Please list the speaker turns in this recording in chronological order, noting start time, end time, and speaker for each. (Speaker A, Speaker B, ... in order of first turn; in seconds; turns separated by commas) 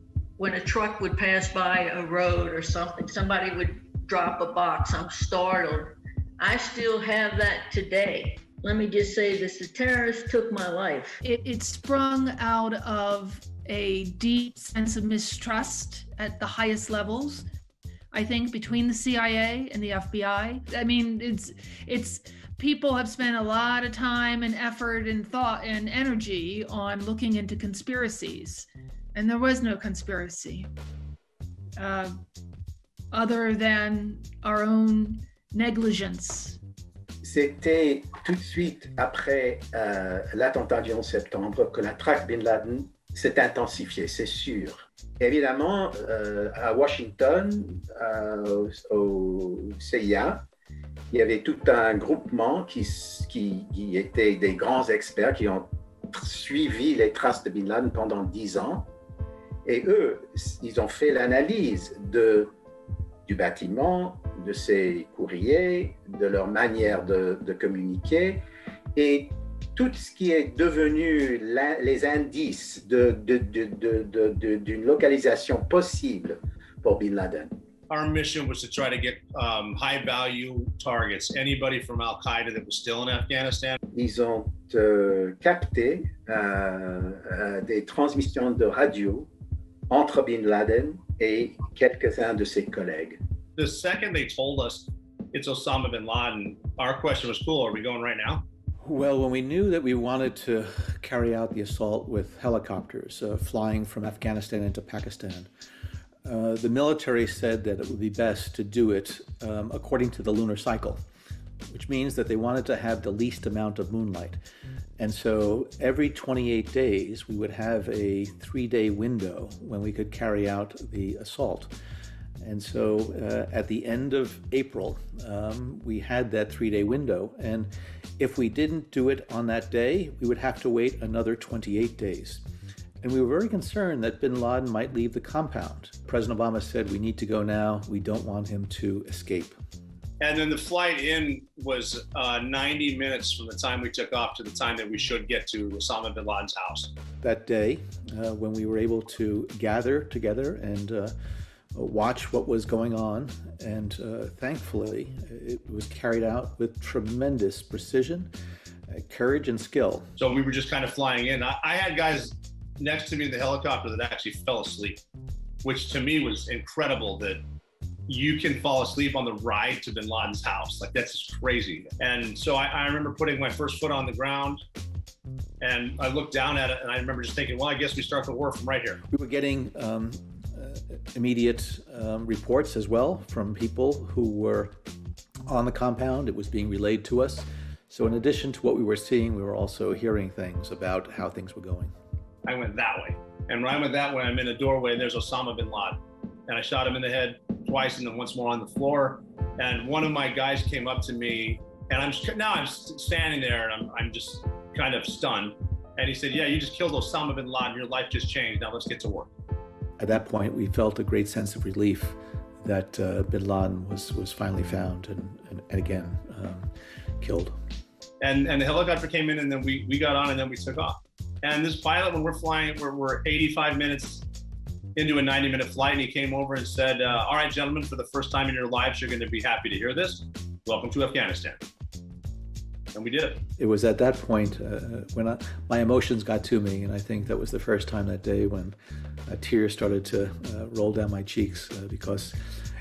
Speaker A: 0.4-11.2, Speaker B: 11.2-17.4, Speaker B: 18.1-30.7, Speaker B: 31.8-32.1, Speaker B: 33.1-36.6, Speaker C: 37.2-50.4, Speaker C: 51.1-58.9, Speaker C: 59.6-62.5, Speaker C: 63.2-68.4, Speaker C: 68.9-77.5, Speaker D: 77.9-83.8, Speaker C: 83.9-89.3, Speaker C: 89.9-93.2, Speaker D: 93.6-98.4, Speaker E: 98.8-105.5, Speaker E: 106.2-111.0, Speaker E: 111.7-114.4, Speaker E: 115.0-121.7, Speaker E: 122.4-132.4, Speaker E: 133.0-139.5, Speaker D: 140.2-146.9, Speaker E: 147.2-151.1, Speaker E: 151.7-158.3, Speaker E: 158.9-160.1, Speaker D: 160.2-165.0, Speaker D: 165.6-167.4, Speaker D: 168.1-174.6, Speaker D: 175.6-179.0, Speaker E: 179.1-184.7, Speaker E: 185.5-191.9, Speaker D: 192.4-209.3, Speaker E: 210.0-216.7, Speaker E: 217.2-217.5, Speaker D: 218.2-224.2, Speaker D: 224.9-231.6, Speaker D: 232.9-233.4, Speaker E: 233.6-238.8, Speaker E: 239.3-242.3